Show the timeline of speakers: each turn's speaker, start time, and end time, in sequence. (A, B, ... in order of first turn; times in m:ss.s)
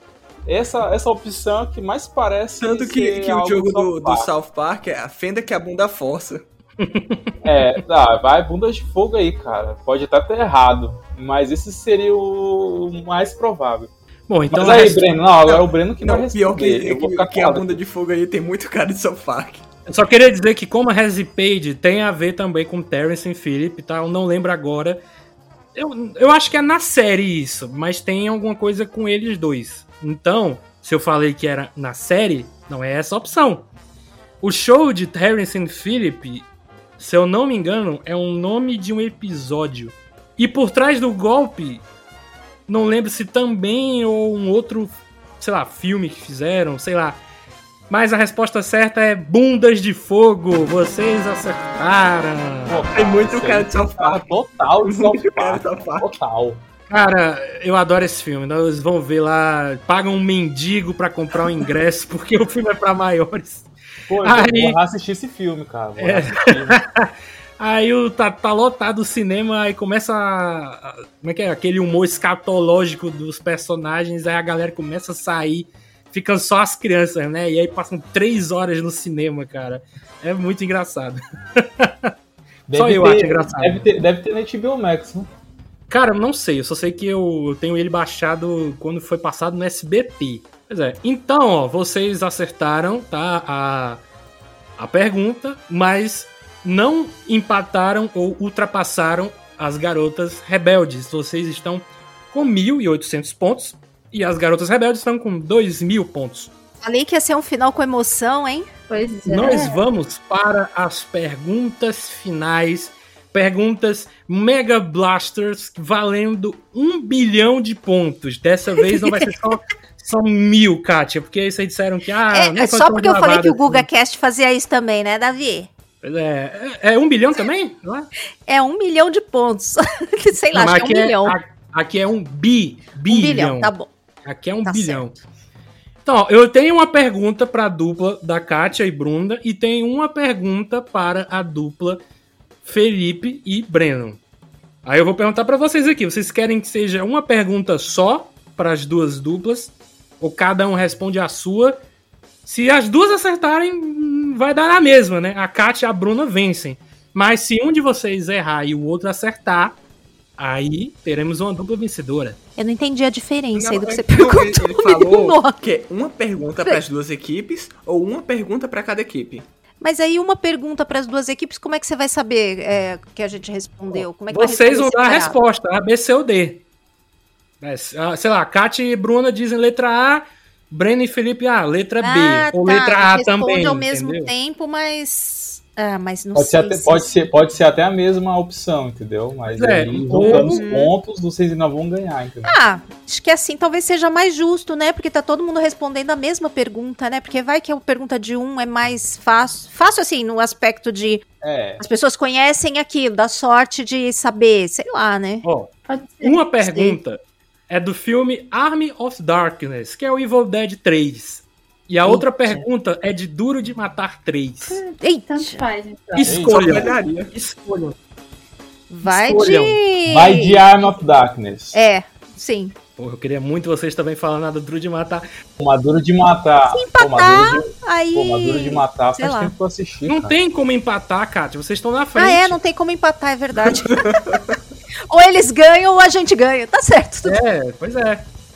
0:00.4-0:04.3 A
0:02.6-0:06.4 B
0:06.8-0:07.3 C
0:07.4-0:13.9 A
0:14.3-0:15.2 C
0:14.5-0:17.8 A
0:15.5-0:19.6 B
0:19.9-0:25.0 C
0:25.7-0:33.6 C
0:34.4-0:36.4 C
0:37.0-0:41.8 C
0:42.7-0:47.2 C
0:47.9-0:52.8 C
0:52.6-0:56.6 A
0:52.9-0:54.3 B
0:54.8-0:56.1 B
0:56.9-1:03.7 C
1:04.1-1:06.8 A
1:04.2-1:04.8 C
1:06.0-1:22.1 C
1:22.7-1:25.3 A
1:22.7-1:23.9 C
1:25.9-1:34.0 C
1:34.8-1:46.5 C
1:46.8-1:48.7 D
1:48.9-1:49.8 E
1:49.3-2:03.9 C
2:02.3-2:05.7 D
2:06.0-2:08.1 C
2:08.4-2:11.4 D
2:10.5-2:13.7 C
2:13.1-2:13.9 D
2:14.2-2:15.1 C
2:14.6-2:15.2 D
2:16.0-2:22.0 C
2:22.6-2:24.2 C
2:24.8-2:31.8 C
2:32.4-2:39.8 C
2:40.4-2:42.4 C
2:42.6-2:45.6 D
2:43.5-2:49.4 B
2:49.8-2:55.4 D
2:53.9-2:56.6 C
2:57.6-3:04.3 C
3:02.0-3:07.1 D
3:06.3-3:12.6 A
3:09.5-3:10.6 C
3:10.3-3:10.9 D
3:12.4-3:21.2 D
3:21.4-3:21.8 A
3:21.8-3:25.4 D
3:25.4-3:25.7 C
3:25.9-3:26.2 E
3:26.2-3:27.0 D
3:26.2-3:27.2 C
3:27.7-3:34.8 C
3:32.0-3:32.6 D
3:34.6-3:35.6 D
3:35.4-3:36.4 E
3:36.1-3:37.9 C
3:36.2-3:37.0 A
3:36.3-3:37.3 B
3:38.9-3:40.6 D
3:39.0-3:39.8 C
3:40.1-3:41.8 A
3:41.7-3:42.7 D
3:43.0-3:45.2 C
3:45.6-3:50.4 A
3:46.7-3:49.5 D
3:50.1-3:52.6 C
3:52.2-3:54.2 D
3:53.6-3:54.5 B
3:55.1-3:57.4 D
3:57.2-3:58.2 C